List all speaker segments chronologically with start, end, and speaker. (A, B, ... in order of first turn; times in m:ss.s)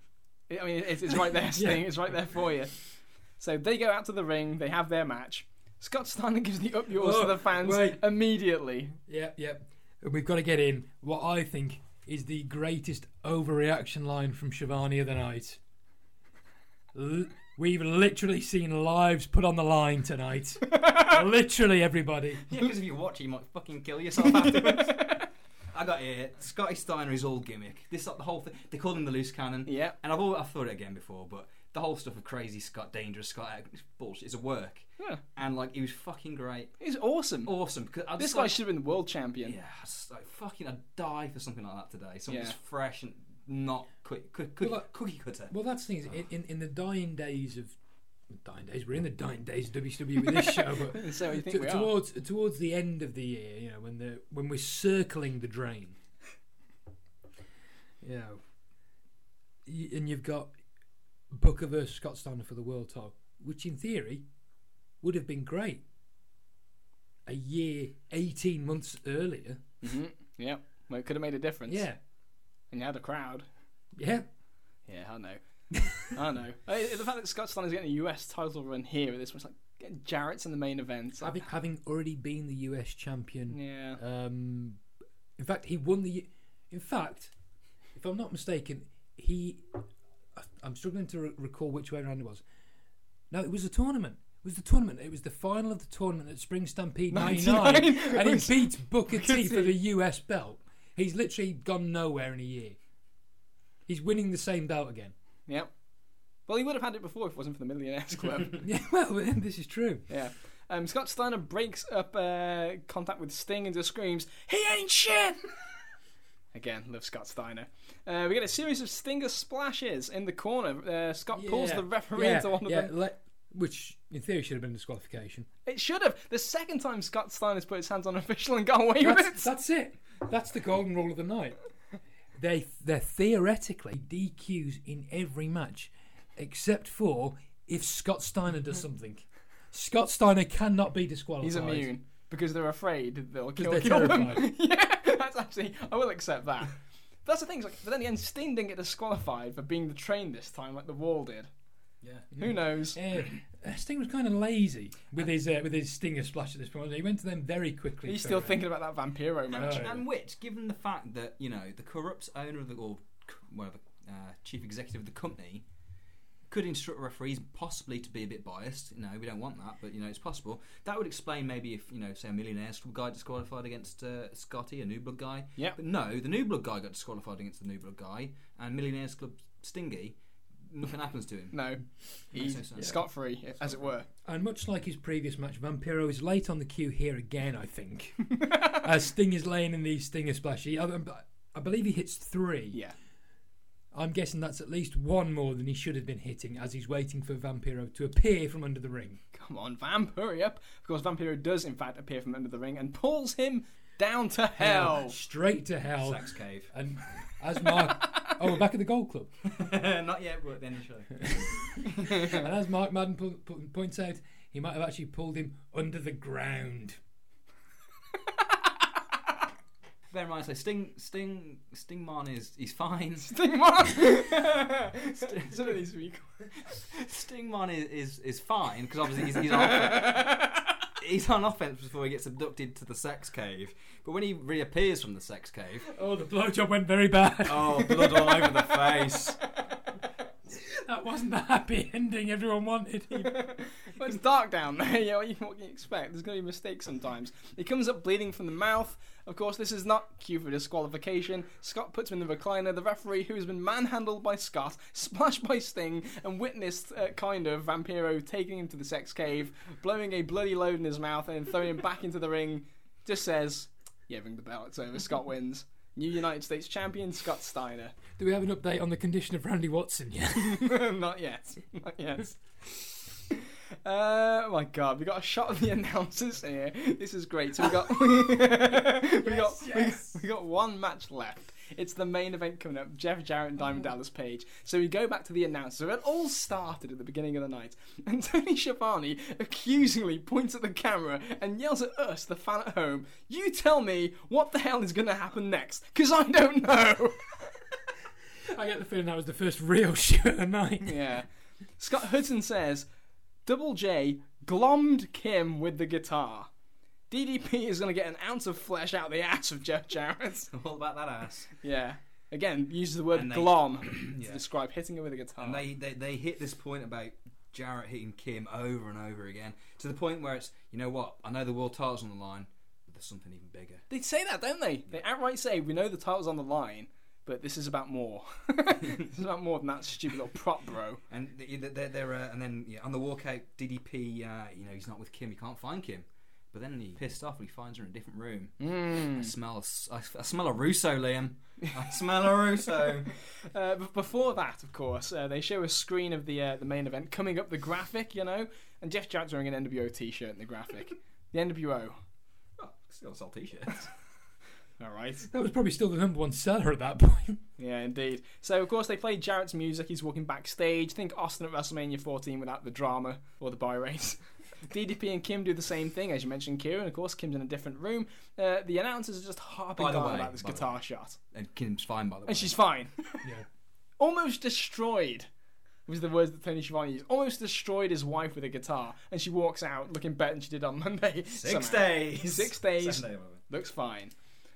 0:00.5-0:02.8 A
0:01.5-0:01.9 B
0:03.4-0:09.0 A
0:06.9-0:08.0 B
0:09.1-0:15.6 B
0:16.9-0:22.5 B
0:22.5-0:36.7 C
0:29.7-0:30.0 A
0:36.8-0:37.5 A
0:37.4-0:38.6 C
0:38.2-0:39.6 A
0:39.4-0:45.5 C
0:42.3-0:42.5 A
0:44.6-0:44.9 B
0:45.5-0:47.8 B
0:48.3-0:56.0 B
0:50.2-0:51.9 A
0:58.0-0:58.4 B
0:59.6-1:00.5 B
1:01.3-1:04.2 B
1:05.0-1:05.8 B
1:07.2-1:09.7 B
1:09.8-1:11.8 A
1:11.7-1:12.0 B
1:12.7-1:13.4 A
1:14.0-1:14.3 B
1:14.9-1:15.4 A
1:15.9-1:21.4 A
1:21.2-1:24.8 B
1:23.5-1:24.0 A
1:25.4-1:27.3 B
1:27.9-1:29.8 B
1:30.4-1:32.4 B
1:33.3-1:42.8 B
1:37.1-1:39.8 A
1:43.9-1:45.1 B
1:46.5-1:48.6 A
1:48.6-1:50.0 B
1:50.1-1:55.4 A
1:56.5-2:02.9 A
2:01.3-2:05.5 B
2:05.6-2:09.5 A
2:09.0-2:11.6 B
2:12.4-2:21.9 B
2:21.4-2:31.5 A
2:23.6-2:24.4 B
2:32.0-2:32.3 C
2:32.3-2:38.6 B
2:32.4-2:33.0 A
2:38.1-2:39.9 A
2:39.5-2:45.6 C
2:39.5-2:40.0 B
2:46.5-3:01.7 C
3:01.5-3:04.1 A
3:02.3-3:03.0 C
3:03.6-3:03.8 C
3:04.2-3:12.8 B
3:13.9-3:19.2 B
3:19.3-3:25.1 A
3:24.6-3:29.3 B
3:26.0-3:26.7 C
3:29.4-3:31.9 C
3:31.2-3:37.0 B
3:40.1-3:43.3 C
3:43.2-3:46.6 A
3:45.2-3:45.8 C
3:46.7-3:50.4 C
3:50.0-3:50.2 A
3:51.0-3:55.8 C
3:55.8-3:58.3 B
3:57.4-3:59.4 C
4:00.7-4:03.6 B
4:03.2-4:28.0 A
4:28.2-4:30.7 B
4:30.4-4:57.5 A
4:39.2-4:40.2 B
4:58.5-5:01.0 B
5:00.8-5:01.2 A
5:01.8-5:02.8 A
5:03.4-5:06.5 A
5:07.1-5:10.5 A
5:10.5-5:11.5 C
5:11.6-5:15.6 A
5:13.1-5:14.4 C
5:15.4-5:23.8 C
5:23.9-5:31.0 A
5:31.1-5:43.1 C
5:38.6-5:39.3 A
5:43.1-5:52.0 A
5:52.6-5:53.9 C
5:54.8-5:55.2 A
5:55.2-5:57.4 B
5:57.6-6:11.2 A
6:09.8-6:10.7 C
6:11.3-6:12.6 C
6:12.3-6:13.2 A
6:14.0-6:15.3 A
6:15.9-6:24.1 A
6:21.3-6:23.4 C